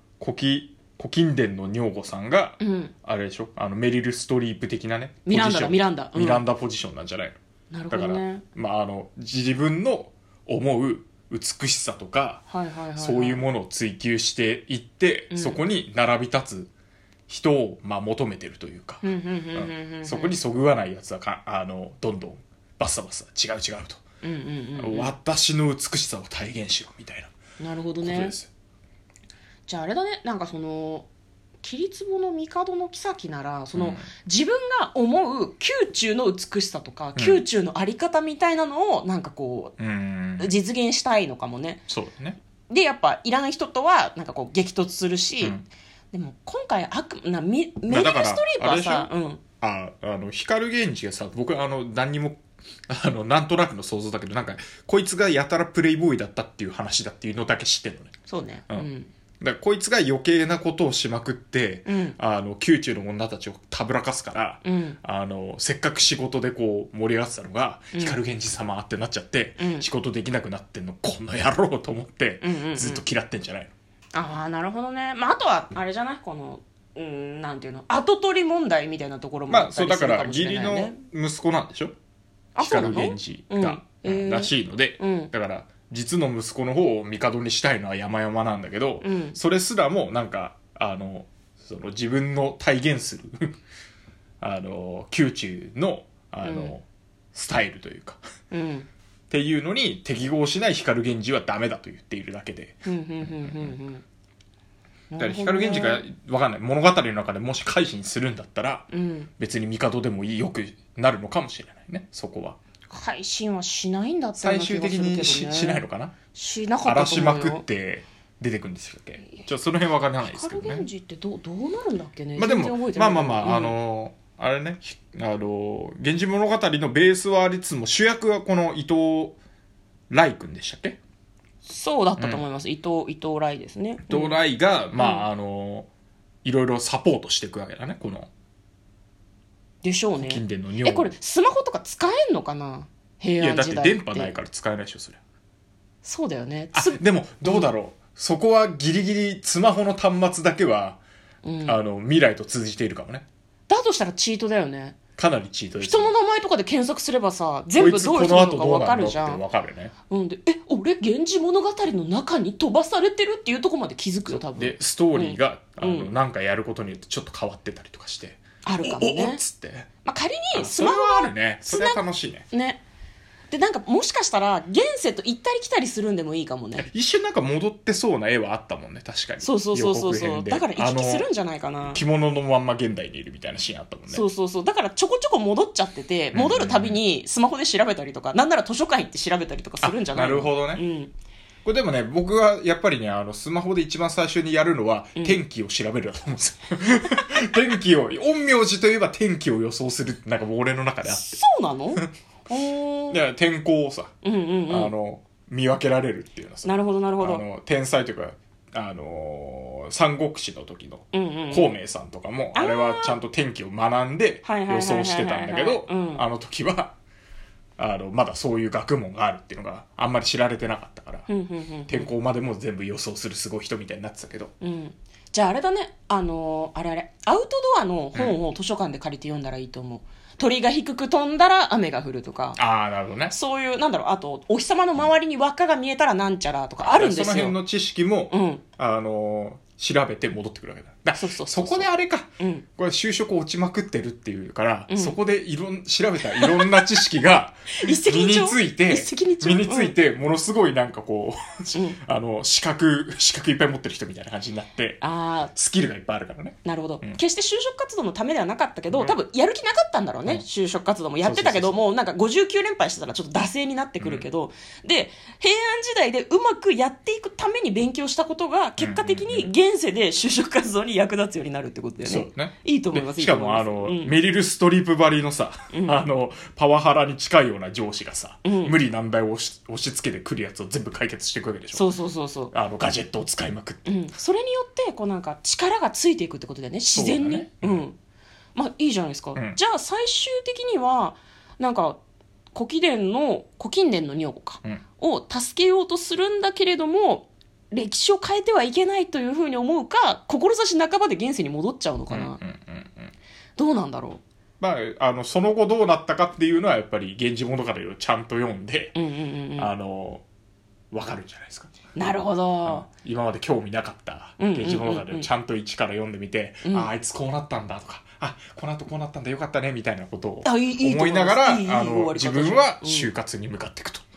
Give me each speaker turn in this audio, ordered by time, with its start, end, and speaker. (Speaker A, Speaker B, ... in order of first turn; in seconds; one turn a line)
Speaker A: 0.2-7.4
Speaker B: 2.6-2.9
Speaker B: 5.2-6.4
Speaker B: 7.7-8.4
Speaker A: 7.9-12.4
Speaker B: 12.5-13.4
Speaker A: 13.0-16.7
Speaker B: 15.3-15.6
Speaker A: 17.3-24.0
Speaker B: 19.0-20.4
Speaker B: 24.2-25.1
Speaker A: 24.8-27.3
Speaker B: 27.6-28.3
Speaker A: 28.0-28.5
Speaker B: 29.7-31.1
Speaker B: 31.6-39.8
Speaker A: 33.7-34.1
Speaker A: 37.1-37.4
Speaker A: 39.8-40.5
Speaker B: 40.4-41.8
Speaker A: 41.9-42.4
Speaker B: 42.7-45.5
Speaker A: 45.4-45.6
Speaker B: 46.1-49.4
Speaker A: 47.9-58.1
Speaker B: 58.3-59.1
Speaker A: 59.4-73.7
Speaker B: 61.9-62.1
Speaker B: 64.6-65.0
Speaker B: 67.9-68.2
Speaker B: 69.6-69.9
Speaker B: 72.4-73.0
Speaker B: 74.1-80.9
Speaker A: 79.5-81.9
Speaker B: 82.5-85.3
Speaker A: 82.6-93.5
Speaker B: 89.0-89.4
Speaker A: 94.4-98.2
Speaker B: 96.4-96.7
Speaker B: 98.5-98.9
Speaker A: 99.3-103.8
Speaker B: 102.8-104.0
Speaker B: 105.1-106.0
Speaker A: 105.2-112.6
Speaker B: 108.9-109.3
Speaker B: 112.9-117.6
Speaker A: 114.4-116.1
Speaker A: 116.8-120.9
Speaker B: 120.2-123.7
Speaker A: 122.4-129.4
Speaker A: 130.1-131.0
Speaker B: 131.6-134.4
Speaker A: 132.2-132.4
Speaker A: 134.0-135.9
Speaker B: 134.9-135.2
Speaker A: 136.4-138.3
Speaker B: 139.8-144.3
Speaker A: 140.2-141.1
Speaker A: 143.4-145.2
Speaker B: 146.0-147.7
Speaker A: 146.7-151.0
Speaker B: 151.4-151.8
Speaker A: 151.6-153.2
Speaker B: 153.7-155.0
Speaker A: 155.2-156.1
Speaker B: 155.8-159.4
Speaker A: 157.7-159.9
Speaker B: 160.1-166.1
Speaker A: 164.3-169.9
Speaker B: 168.6-169.4
Speaker B: 170.0-172.8
Speaker A: 170.5-172.4
Speaker B: 173.5-176.9
Speaker A: 176.8-181.3
Speaker B: 179.4-182.0
Speaker A: 181.9-184.2
Speaker B: 184.1-191.1
Speaker A: 186.3-187.0
Speaker A: 189.8-190.8
Speaker A: 191.6-201.4
Speaker B: 201.1-203.2
Speaker A: 203.1-204.1
Speaker B: 204.2-204.9
Speaker A: 204.7-216.9
Speaker B: 206.6-207.4
Speaker B: 211.1-211.8
Speaker B: 212.5-213.2
Speaker B: 214.4-216.2
Speaker A: 217.8-221.3
Speaker B: 221.3-222.1
Speaker A: 221.9-224.5
Speaker B: 224.6-232.6
Speaker A: 232.6-233.3
Speaker B: 233.3-237.6
Speaker A: 236.8-255.0
Speaker B: 238.3-238.6
Speaker B: 241.2-241.9
Speaker B: 242.4-242.6
Speaker B: 244.9-245.2
Speaker B: 246.3-246.8
Speaker B: 247.8-249.9
Speaker B: 255.0-255.5
Speaker A: 255.5-257.2
Speaker B: 256.6-274.1
Speaker A: 258.9-259.2
Speaker A: 261.2-261.8
Speaker A: 264.0-264.2
Speaker A: 268.8-269.5
Speaker A: 272.0-281.9
Speaker B: 275.7-276.0
Speaker B: 278.4-278.7
Speaker B: 281.7-282.5
Speaker A: 282.5-283.9
Speaker B: 283.9-288.0
Speaker A: 286.9-287.9
Speaker B: 288.5-292.0
Speaker B: 292.5-302.4
Speaker A: 302.1-303.1
Speaker B: 303.6-304.2
Speaker A: 304.6-309.0
Speaker B: 308.9-309.7
Speaker A: 309.6-310.2
Speaker A: 310.9-311.7
Speaker B: 311.9-312.9
Speaker A: 312.6-324.0
Speaker B: 314.4-315.3
Speaker B: 316.6-316.9
Speaker B: 320.4-323.1